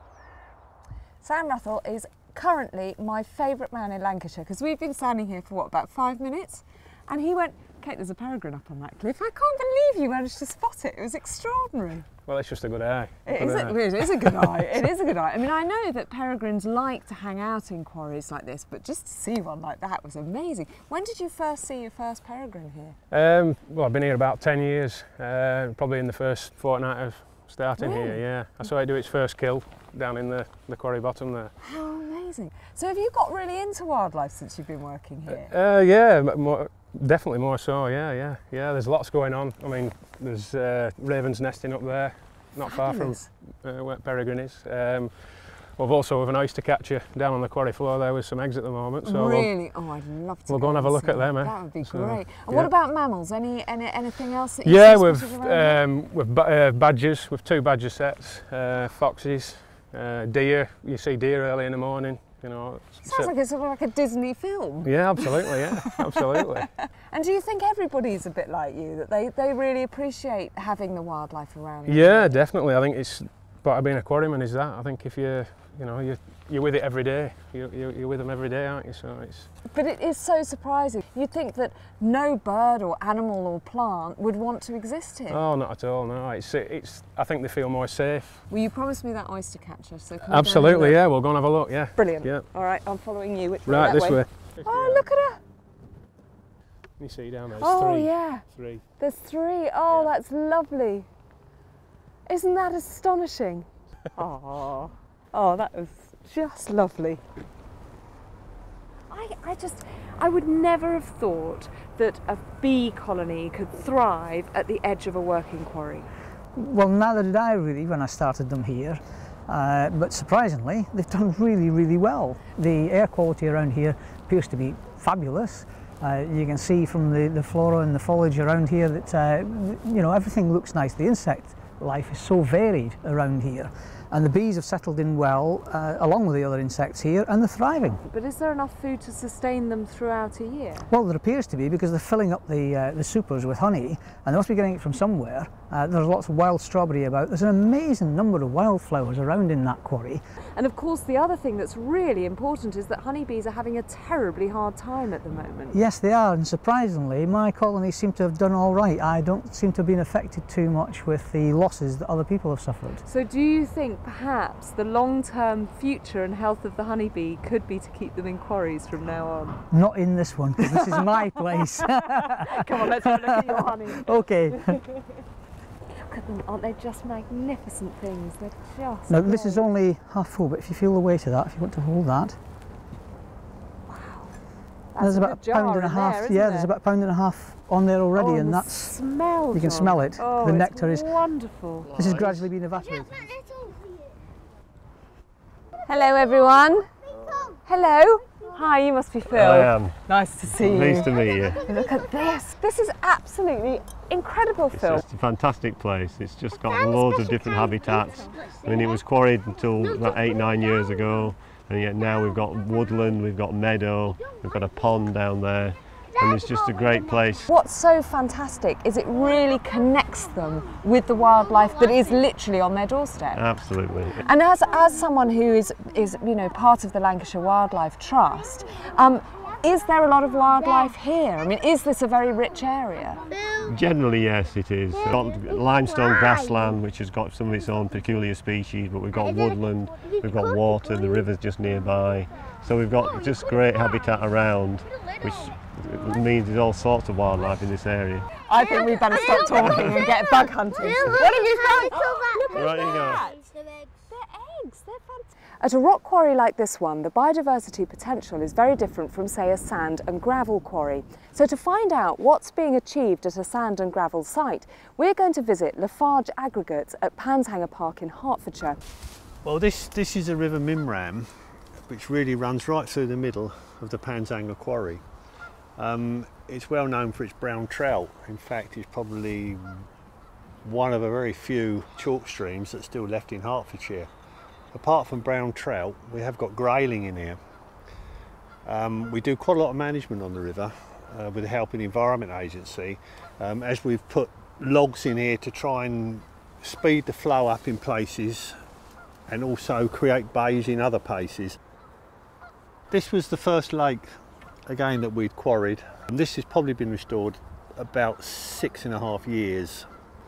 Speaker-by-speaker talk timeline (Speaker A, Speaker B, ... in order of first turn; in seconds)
Speaker A: 1.2-12.1, 13.2-23.0, 27.8-28.3, 31.6-35.5, 42.6-43.3, 49.0-55.8, 63.0-65.7, 67.1-72.4, 79.7-85.4, 88.5-91.0, 91.9-95.4, 97.5-101.1, 102.2-107.2, 109.1-116.1, 138.1-140.9, 150.5-155.8, 163.0-169.6, 172.5-174.0, 175.9-179.6, 183.9-184.3, 184.9-186.7, 188.2-191.9, 195.8-196.9, 197.6-205.0, 217.5-223.4, 224.2-233.2, 248.4-253.5, 254.0-268.8
Speaker B: 12.2-14.3, 23.1-31.5, 35.2-49.8, 50.5-52.7, 54.6-63.3, 64.8-66.7, 71.8-79.5, 85.3-88.5, 90.2-92.5, 93.7-95.1, 97.0-98.8, 99.9-100.1
Speaker C: 116.5-138.0, 140.9-150.2, 155.7-163.0, 169.7-174.8, 179.1-182.4, 185.0-191.2, 191.9-193.4
Speaker D: 199.3-199.9, 200.5-201.6, 204.7-217.5, 223.3-224.3, 233.6-248.3, 252.5-253.2
Speaker E: 269.4-271.3, 271.9-275.0, 275.8-279.8, 280.6-284.1, 284.7-287.4, 288.6-298.5, 299.3-301.6, 302.9-304.1, 304.7-309.9